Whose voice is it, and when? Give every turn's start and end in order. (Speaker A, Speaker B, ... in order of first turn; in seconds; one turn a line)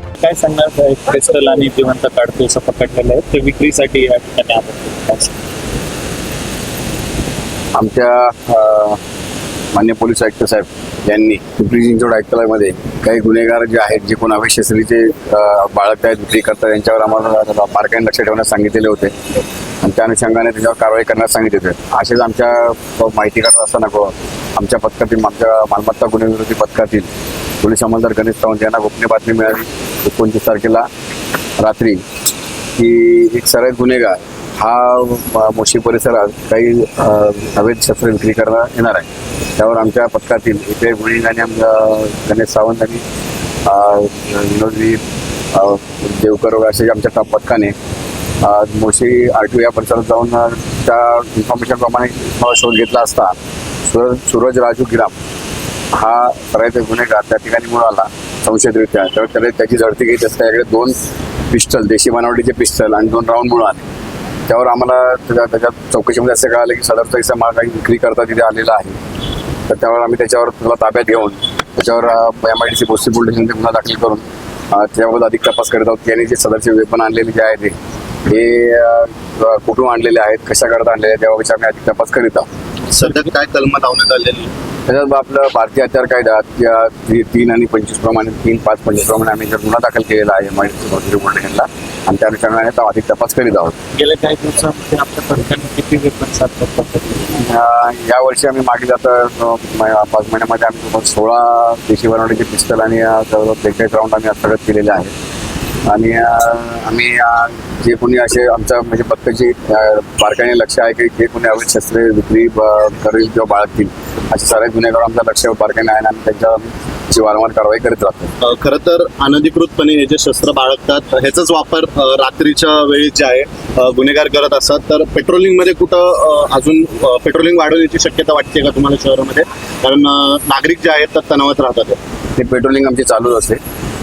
Speaker A: 0.2-5.3
Speaker B: 7.8-9.0
Speaker B: 9.7-27.1
Speaker B: 27.6-30.9
Speaker B: 31.6-32.0
Speaker B: 32.8-43.0
Speaker B: 43.6-45.0
Speaker B: 45.5-47.8
Speaker B: 48.4-55.2
Speaker B: 55.9-61.0
Speaker B: 61.5-63.9
Speaker B: 64.5-69.0
Speaker B: 69.7-77.8
Speaker B: 78.3-82.5
Speaker C: 82.9-84.5
Speaker B: 84.9-93.8
Speaker A: 94.0-97.2
Speaker B: 97.4-105.1
Speaker B: 105.9-118.3
Speaker C: 118.4-132.0
Speaker B: 132.4-133.6